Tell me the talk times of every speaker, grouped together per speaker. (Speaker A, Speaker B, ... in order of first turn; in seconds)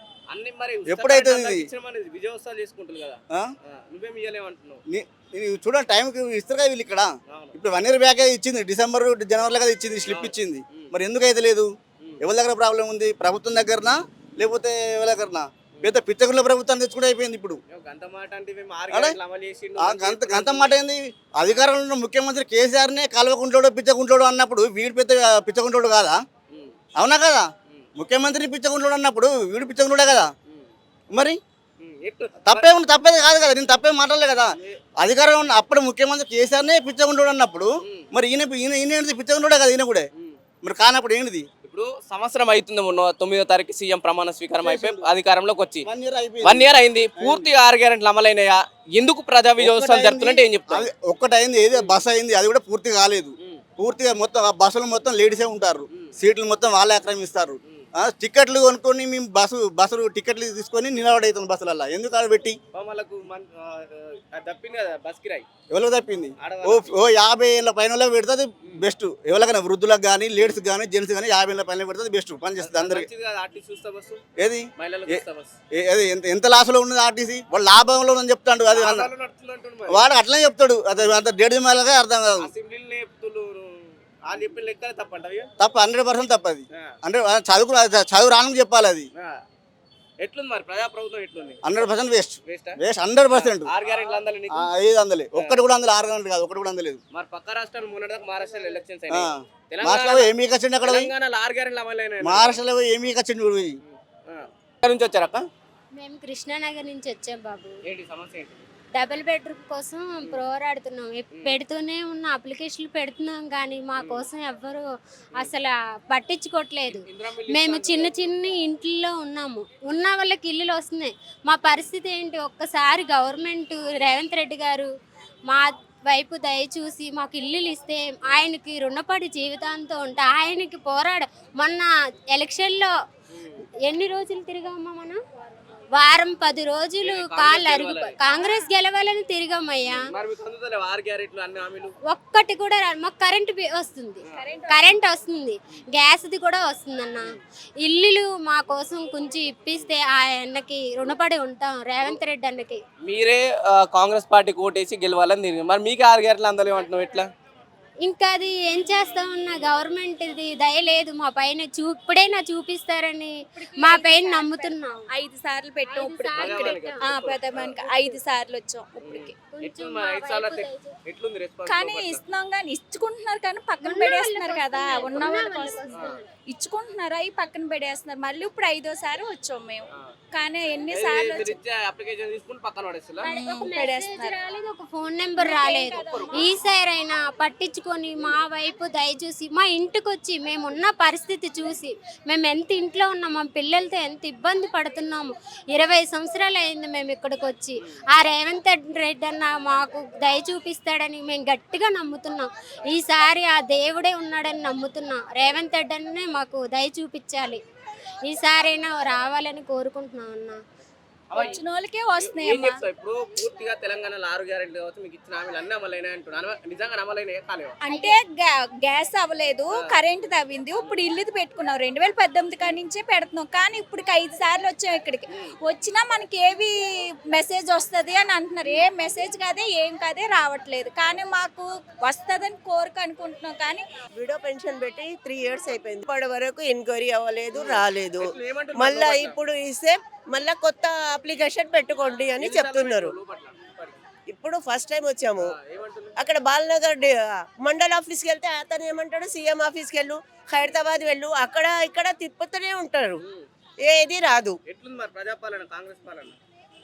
Speaker A: 0.3-4.8, 7.3-7.6, 10.0-10.9, 17.7-20.8, 26.5-26.8, 30.4-30.7, 31.8-32.7, 34.5-34.8, 37.8-38.1, 41.6-45.9, 46.4-50.9, 51.7-52.0, 62.7-65.5, 66.4-67.0, 72.6-74.2, 74.8-75.5, 78.7-80.1, 80.9-81.2, 82.4-85.5, 90.2-91.8, 92.4-94.7, 95.3-95.6, 97.1-102.6, 103.8-105.4, 107.8-108.7, 110.2-110.5, 111.3-111.6, 114.0-114.3, 116.9-118.3, 133.3-133.6, 137.0-138.2, 139.9-141.9, 144.2-144.5, 153.0-157.3, 159.5-159.7, 166.3-167.8, 169.0-172.2, 175.9-176.2, 180.9-183.3, 185.8-186.4, 211.3-211.6, 212.2-217.8, 219.7-220.0, 237.5-239.4, 241.9-244.0, 245.4-246.2, 253.2-253.5, 254.7-256.4
Speaker B: 0.8-1.7, 4.9-17.6, 18.9-19.2, 19.8-26.2, 27.0-30.3, 31.1-31.4, 32.4-40.1, 40.6-41.5, 44.6-45.0, 45.8-47.5, 49.6-62.6, 65.7-73.1, 74.4-75.2, 75.7-79.1, 79.9-82.5, 85.6-89.1, 91.6-93.7, 94.5-97.0, 99.1-101.1, 102.2-103.8
Speaker C: 105.9-107.8, 108.9-124.9, 125.5-132.9, 133.8-135.2, 135.9-140.0, 142.1-152.8, 158.0-165.1, 165.9-168.2, 169.5-170.9, 173.8-176.2, 183.2-207.6, 208.2-210.6, 217.9-218.2
Speaker D: 138.3-138.7, 144.3-145.1, 163.6-169.4, 171.7-181.6, 183.2-184.4, 185.3-186.4, 211.3-212.8, 217.8-226.7, 227.3-233.8
Speaker E: 234.2-243.2, 244.3-245.5, 246.2-253.2, 253.8-254.6